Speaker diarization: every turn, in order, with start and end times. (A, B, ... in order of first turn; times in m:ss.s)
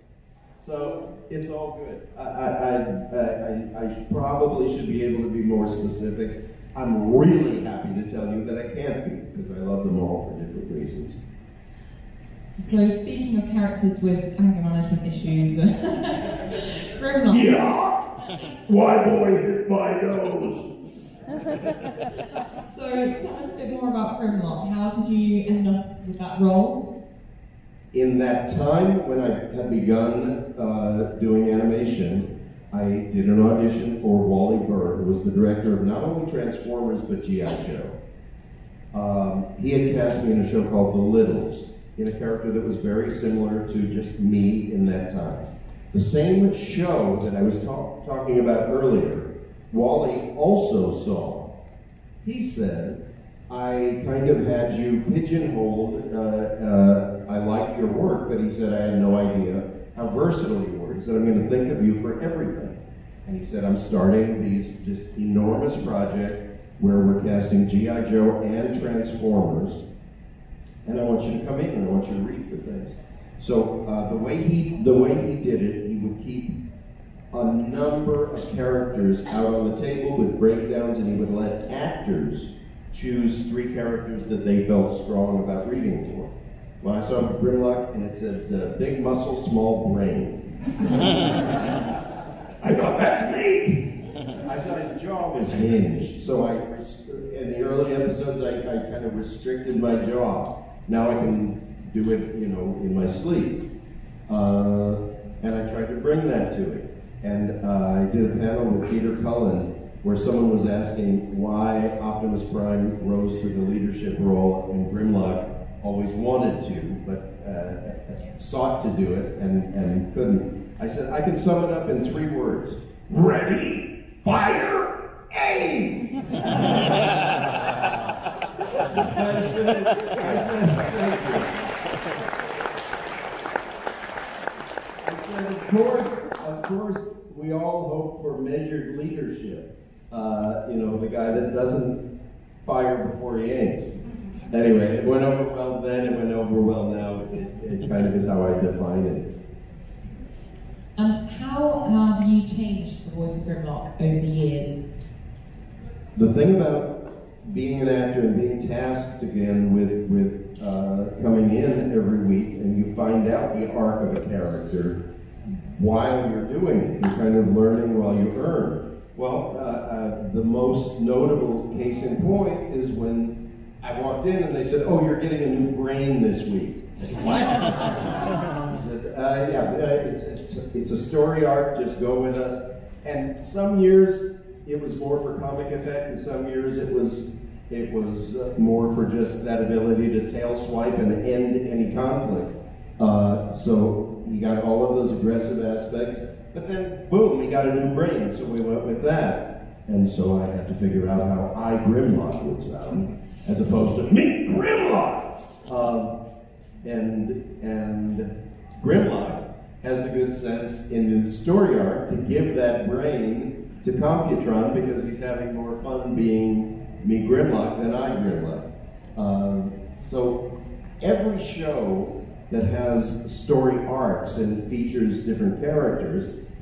0:00.6-0:11.2 A
0:12.6-0:17.5 B
0:17.3-0:18.0 C
0:18.7-0:20.7 C
0:22.6-0:26.8 B
0:27.9-0:38.0 A
0:38.9-0:51.5 A
0:52.2-1:09.8 A
1:10.8-1:16.6 A
1:17.3-1:30.4 A
1:32.6-1:33.8 C
1:34.4-1:43.6 A
1:44.3-2:02.8 A
2:03.1-2:06.0 C
2:08.7-2:11.5 A
2:15.0-2:22.0 A
2:22.6-2:23.9 A
2:24.5-2:29.3 A
2:31.0-2:34.8 B
2:36.2-2:36.9 A
2:37.4-2:45.0 A
2:45.7-3:24.2 A
3:24.1-3:25.3 C
3:25.7-3:26.1 A
3:26.8-3:40.4 A
3:41.0-3:46.3 A